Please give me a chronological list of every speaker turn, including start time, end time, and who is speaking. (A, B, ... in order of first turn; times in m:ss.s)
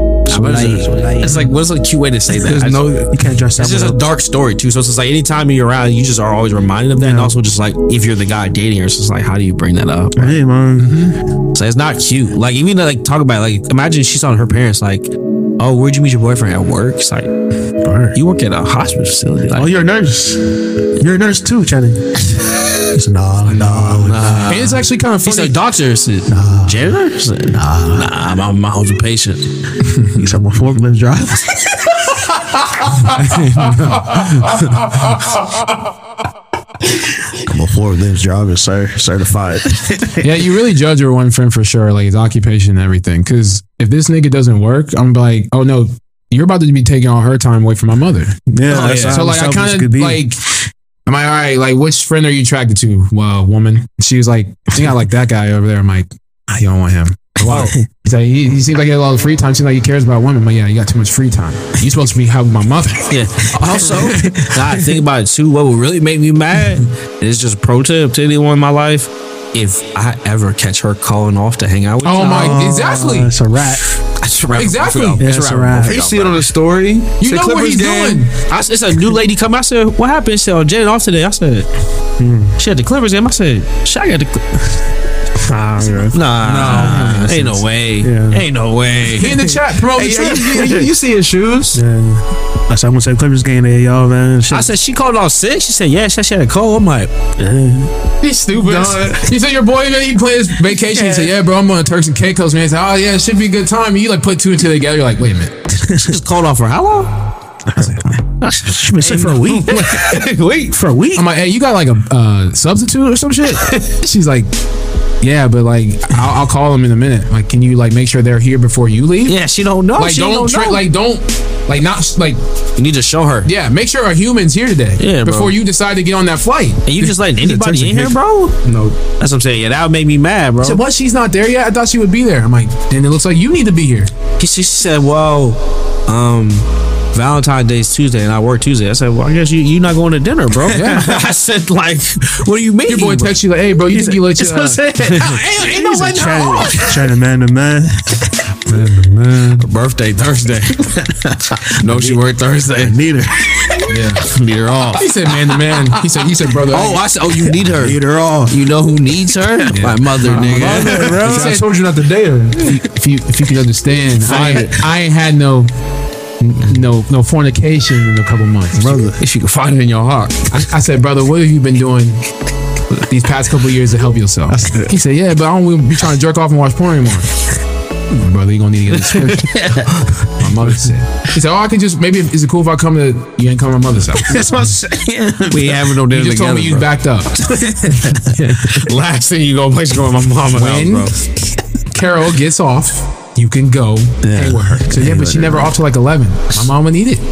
0:00.3-0:02.9 A
0:00.3-0:01.2 B
0:02.4-0:03.2 C
0:03.1-0:04.0 B
0:03.6-0:10.4 A
0:07.0-0:07.3 B
0:10.2-0:11.0 B
0:10.8-0:11.2 D
0:11.5-0:17.3 A
0:17.8-0:18.2 B
0:18.1-0:19.7 A
0:19.5-0:20.4 B
0:21.0-0:24.4 B
0:23.7-0:29.5 A
0:24.3-0:25.6 D
0:26.3-0:28.1 B
0:30.2-0:32.2 B
0:32.8-0:33.1 D
0:33.2-0:34.0 C
0:33.4-0:34.5 B
0:33.9-0:35.7 D
0:37.3-0:40.3 B
0:40.2-0:50.4 D
0:48.5-0:50.2 B
0:48.7-0:49.2 A
0:51.1-1:04.0 D
0:57.4-0:57.7 A
0:57.5-0:57.8 B
1:03.1-1:12.6 A
1:03.8-1:05.0 B
1:12.0-1:13.3 D
1:12.2-1:13.8 B
1:14.2-1:16.4 A
1:14.6-1:15.2 D
1:15.2-1:16.1 B
1:15.8-1:18.3 C
1:17.2-1:18.3 D
1:18.5-1:21.7 A
1:22.2-1:22.6 B
1:22.6-1:24.7 A
1:25.4-1:27.1 B
1:25.8-1:29.4 A
1:26.4-1:27.6 C
1:28.0-1:28.4 B
1:29.2-1:30.9 D
1:29.8-1:31.8 C
1:31.8-1:34.7 B
1:34.5-1:37.1 A
1:37.4-1:37.9 B
1:38.2-1:45.5 D
1:38.6-1:39.1 C
1:40.9-1:41.3 B
1:45.7-1:46.2 B
1:45.9-1:47.1 A
1:47.7-1:51.2 B
1:48.5-1:50.8 A
1:51.2-1:54.5 D
1:55.2-1:59.4 D
1:59.3-2:00.8 A
2:00.0-2:02.4 D
2:02.8-2:03.5 A
2:03.4-2:07.1 D
2:05.0-2:05.5 A
2:06.8-2:08.6 A
2:07.4-2:09.0 C
2:09.2-2:10.8 A
2:10.6-2:14.1 D
2:14.4-2:23.4 A
2:20.7-2:21.2 B
2:20.7-2:21.1 D
2:22.9-2:27.0 D
2:23.9-2:28.5 B
2:28.7-2:29.7 C
2:29.6-2:31.1 A
2:31.0-2:32.2 B
2:31.6-2:33.0 A
2:32.7-2:33.9 B
2:33.9-2:34.3 D
2:34.2-2:35.1 A
2:34.9-2:37.0 D
2:35.8-2:36.3 B
2:36.7-2:41.1 A
2:37.3-2:38.6 B
2:39.7-2:41.7 D
2:40.3-2:42.6 C
2:40.3-2:41.5 B
2:42.6-2:45.7 D
2:44.2-2:44.7 A
2:46.6-2:49.2 D
2:48.8-2:50.6 A
2:50.5-2:52.2 D
2:53.0-2:57.3 D
2:58.1-3:04.7 D
2:59.0-3:00.2 A
3:04.2-3:05.9 B
3:05.5-3:06.9 A
3:06.1-3:07.4 D
3:07.4-3:08.3 B
3:08.2-3:11.2 A
3:10.6-3:11.1 D
3:11.9-3:17.2 D
3:14.3-3:15.4 A
3:14.3-3:15.7 B